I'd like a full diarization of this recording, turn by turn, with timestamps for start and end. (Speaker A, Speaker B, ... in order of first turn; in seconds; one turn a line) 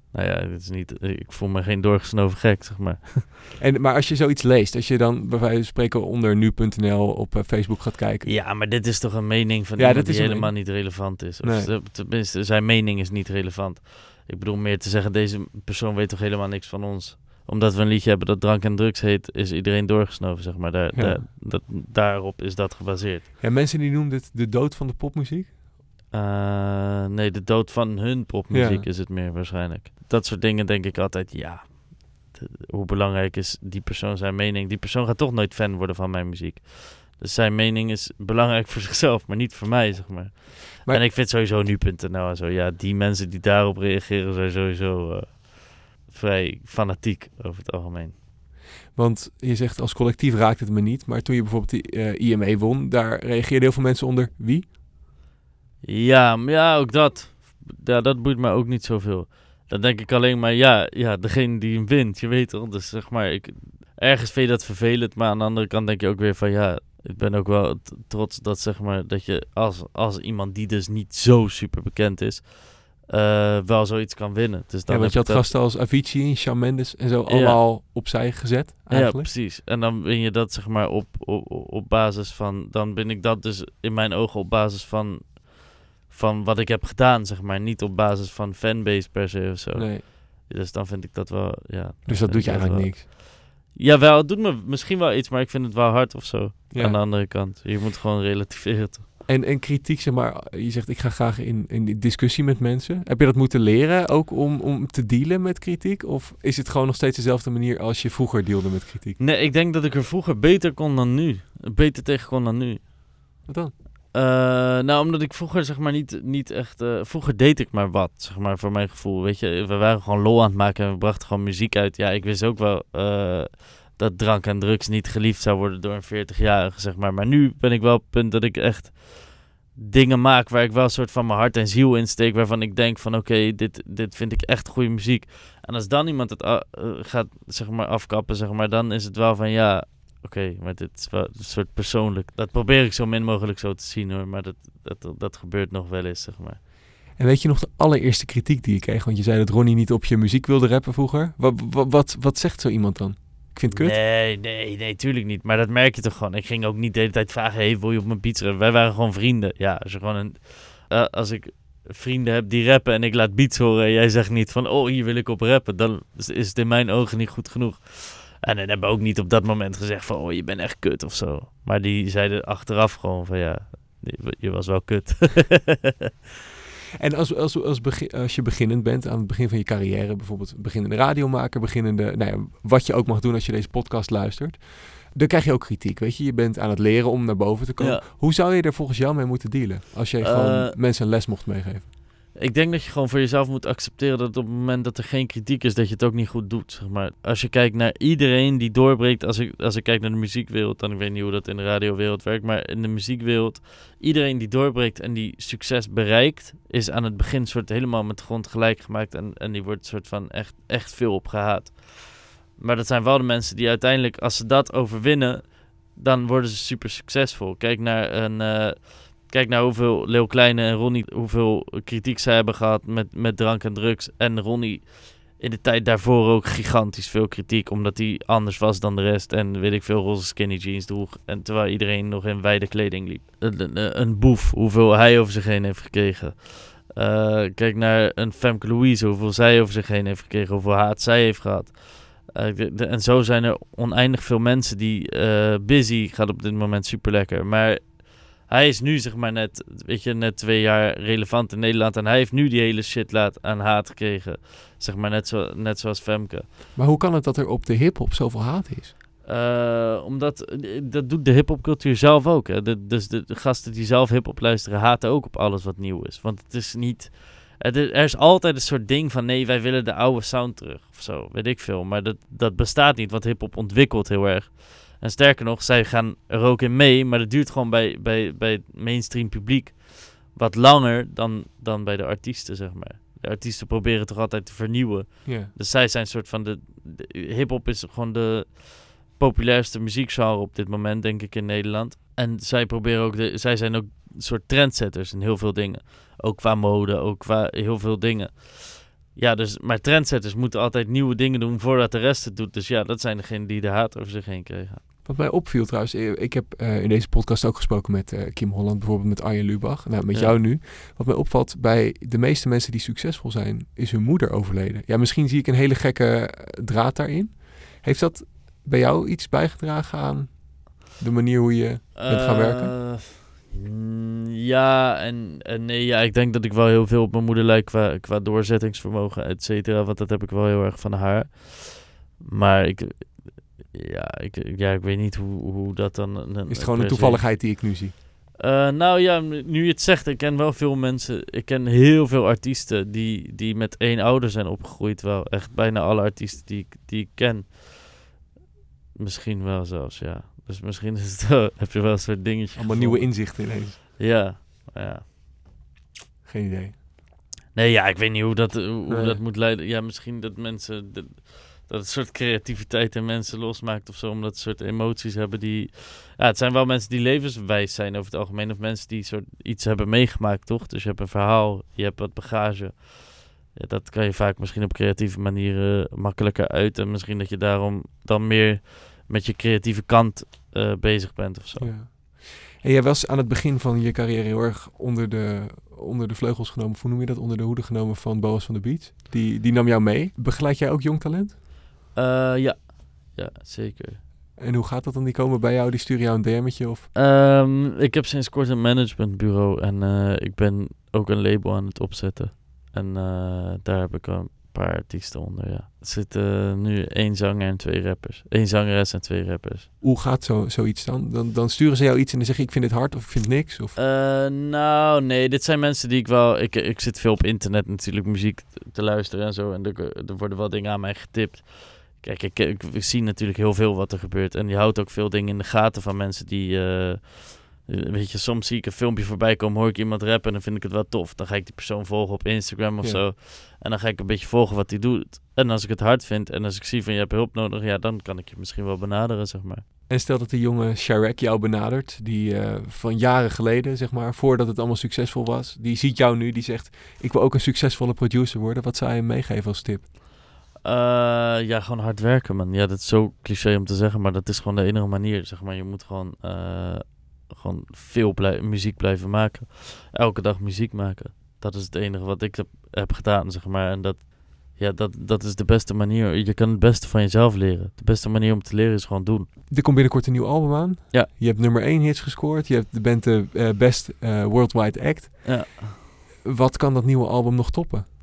Speaker A: 0.1-3.4
Speaker B: 3.6-8.3
Speaker A: 8.2-23.3
Speaker B: 9.8-11.7
Speaker B: 20.9-21.2
Speaker B: 23.4-25.6
Speaker A: 26.1-48.2
Speaker B: 28.5-28.9
Speaker B: 48.9-54.7
Speaker A: 55.8-75.5
Speaker B: 74.9-79.3
Speaker A: 77.3-77.6
Speaker A: 78.9-99.0
Speaker B: 89.8-90.0
Speaker B: 92.1-93.0
Speaker B: 96.7-97.0
Speaker B: 99.3-109.2
Speaker A: 109.2-112.9
Speaker B: 113.5-113.7
Speaker A: 114.1-146.6
Speaker B: 147.2-154.0
Speaker A: 153.7-176.1
Speaker B: 177.0-191.9
Speaker A: 187.8-188.0
Speaker A: 190.2-190.8
Speaker A: 192.3-256.5
Speaker B: 256.8-258.9
Speaker A: 259.2-304.8
Speaker B: 285.2-285.5
Speaker B: 305.1-322.8
Speaker A: 322.0-337.7
Speaker B: 336.5-337.9
Speaker A: 338.4-347.6
Speaker A: 349.0-355.2
Speaker B: 352.6-353.8
Speaker B: 356.2-356.8
Speaker A: 357.5-381.7
Speaker B: 358.9-359.2
Speaker B: 381.6-391.4
Speaker A: 391.9-394.0
Speaker B: 394.4-396.9
Speaker A: 396.9-409.7
Speaker B: 409.8-413.8
Speaker A: 413.8-439.6
Speaker B: 439.9-449.9
Speaker A: 450.6-469.3
Speaker B: 469.5-475.7
Speaker A: 475.2-475.8
Speaker B: 476.2-477.9